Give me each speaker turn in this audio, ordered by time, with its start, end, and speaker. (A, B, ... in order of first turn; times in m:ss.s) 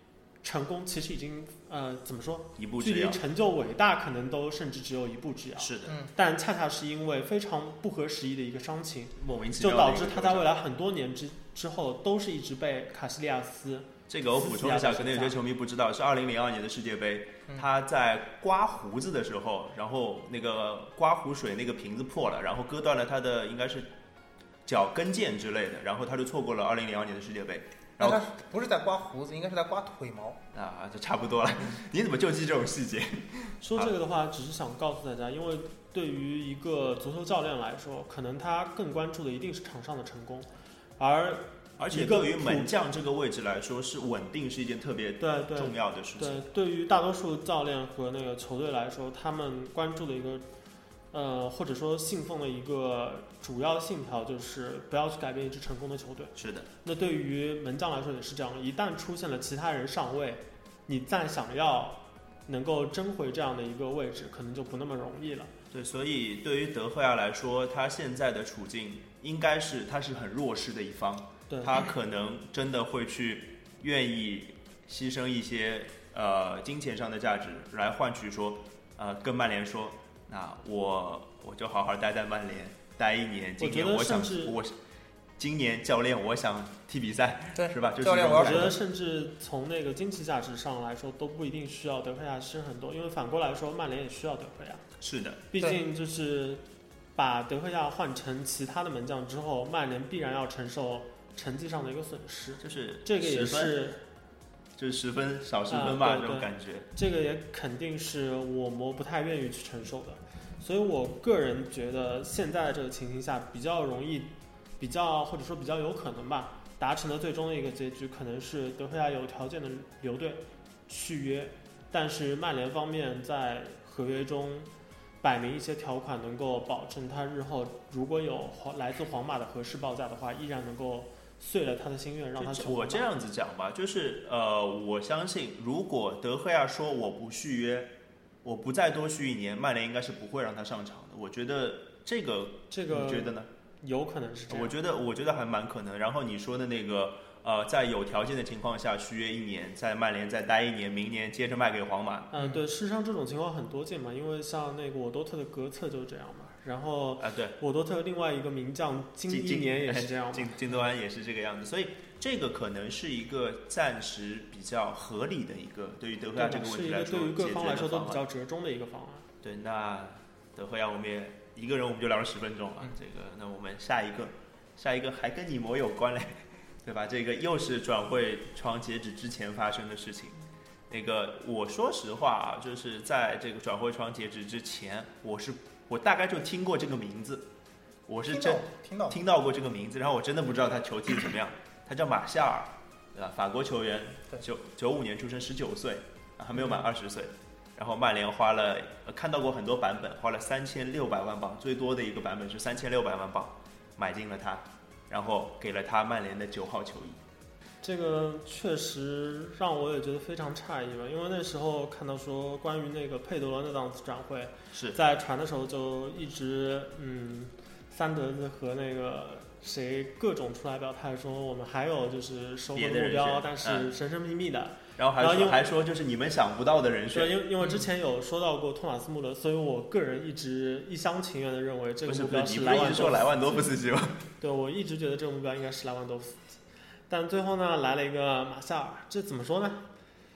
0:00.4-0:15.4 A
0:02.6-0:03.2 B
0:05.6-0:06.0 B
0:09.2-0:10.5 B
0:14.1-0:23.9 B
0:24.6-0:28.2 B
0:28.0-0:30.4 C
0:30.5-0:33.9 B
0:33.6-0:42.7 A
0:41.8-0:46.4 B
0:45.2-0:50.4 A
0:51.1-1:05.5 A
0:56.4-0:56.7 B
1:05.7-1:24.8 B
1:11.5-1:11.8 A
1:23.6-1:24.6 A
1:25.4-1:28.8 B
1:27.6-1:28.8 C
1:28.3-1:34.8 A
1:35.0-1:35.4 B
1:35.5-1:36.6 A
1:37.2-1:44.0 A
1:42.6-1:43.8 B
1:44.8-1:46.9 B
1:45.7-2:04.7 A
2:05.2-2:13.1 A
2:12.4-2:17.9 B
2:18.4-2:23.5 B
2:22.7-2:24.7 A
2:24.5-2:32.3 B
2:32.3-2:40.6 A
2:37.2-2:37.6 B
2:39.3-2:48.2 B
2:46.3-2:49.3 A
2:49.4-3:07.5 B
3:08.1-3:27.2 B
3:08.3-3:09.2 C
3:27.8-3:45.6 A
3:34.7-3:35.0 B
3:42.7-3:43.9 B
3:45.0-3:47.4 B
3:47.1-3:53.6 A
3:52.0-3:54.2 B
3:54.4-3:56.5 A
3:57.1-3:59.9 A